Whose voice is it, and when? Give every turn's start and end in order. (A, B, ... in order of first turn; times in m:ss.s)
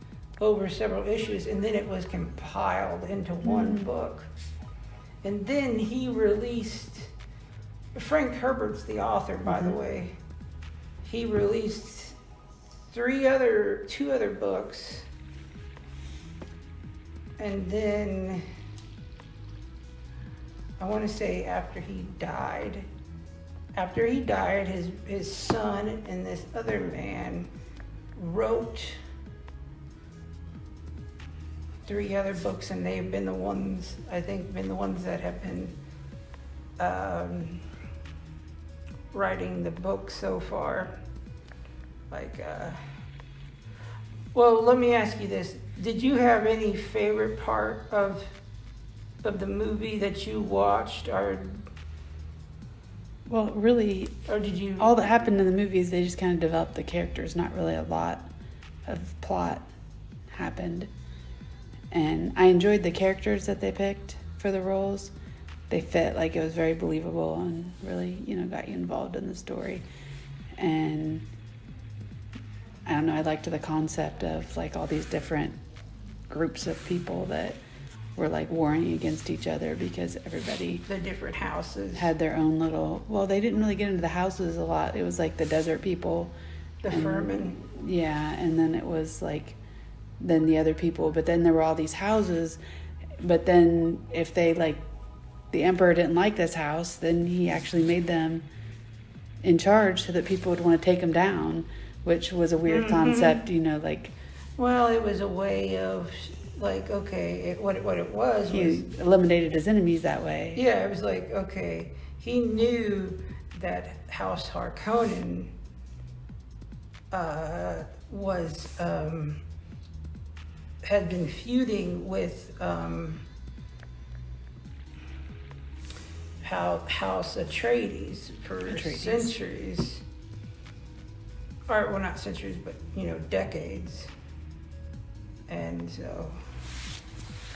0:00.4-0:04.4 A
0:03.4-0:03.9 B
0:05.2-0:07.1 A
0:07.9-0:10.2 A
0:09.5-0:09.7 B
0:11.0-0:12.2 A
0:12.9-0:15.1 A
0:17.4-0:18.5 A
0:20.8-0:22.9 A
0:23.8-0:27.5 A
0:28.1-0:29.0 A
0:31.8-0:35.8 A
0:36.8-0:37.6 A
0:39.1-0:41.0 A
0:42.1-0:42.8 A
0:44.3-0:48.3 A
0:49.2-0:51.7 A
0:53.3-0:54.2 B
0:54.3-0:55.0 A
0:54.8-0:58.3 B
0:58.8-0:59.6 B
1:00.3-1:00.9 B
1:01.9-1:05.1 B
1:05.7-1:09.8 B
1:10.6-1:11.3 B
1:12.8-1:15.6 B
1:16.3-1:17.6 B
1:18.2-1:20.8 B
1:20.8-1:22.1 A
1:21.9-1:26.3 B
1:26.8-1:27.6 A
1:26.9-1:29.6 B
1:30.2-1:32.6 B
1:33.2-1:34.8 B
1:35.5-1:38.4 B
1:39.4-1:44.1 B
1:42.7-1:43.4 A
1:44.6-1:48.9 A
1:48.5-1:50.6 B
1:50.5-1:55.5 A
1:57.1-1:59.4 A
2:00.8-2:03.2 A
2:06.4-2:10.0 A
2:08.7-2:09.3 B
2:11.7-2:14.1 A
2:15.5-2:16.4 A